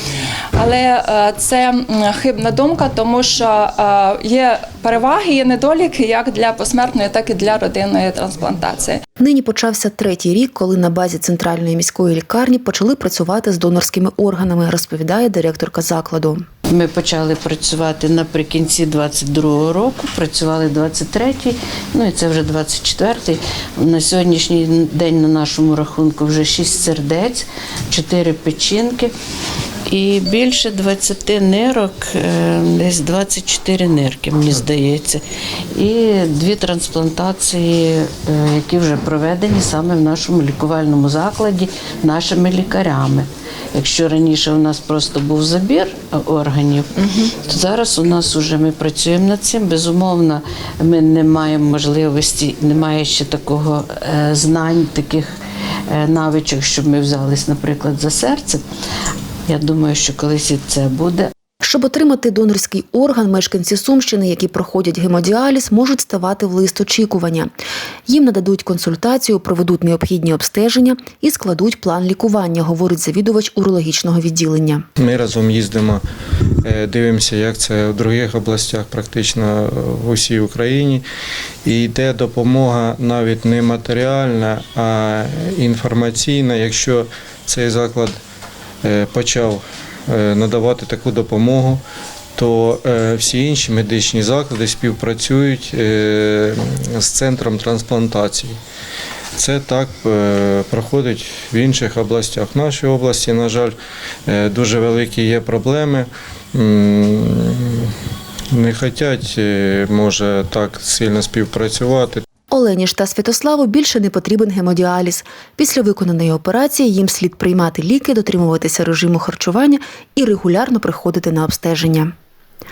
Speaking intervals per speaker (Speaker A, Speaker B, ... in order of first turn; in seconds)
Speaker A: 0.6-9.0
Speaker B: 9.2-16.4, 61.6-67.5, 68.1-74.8, 112.5-122.1
Speaker C: 16.7-29.1, 29.9-35.2, 35.7-55.3, 55.9-58.6, 59.5-61.3
Speaker D: 75.0-76.0, 76.6-81.0, 81.7-88.2, 88.8-91.8, 92.4-98.6, 99.4-103.7, 104.3-107.9, 108.5-112.2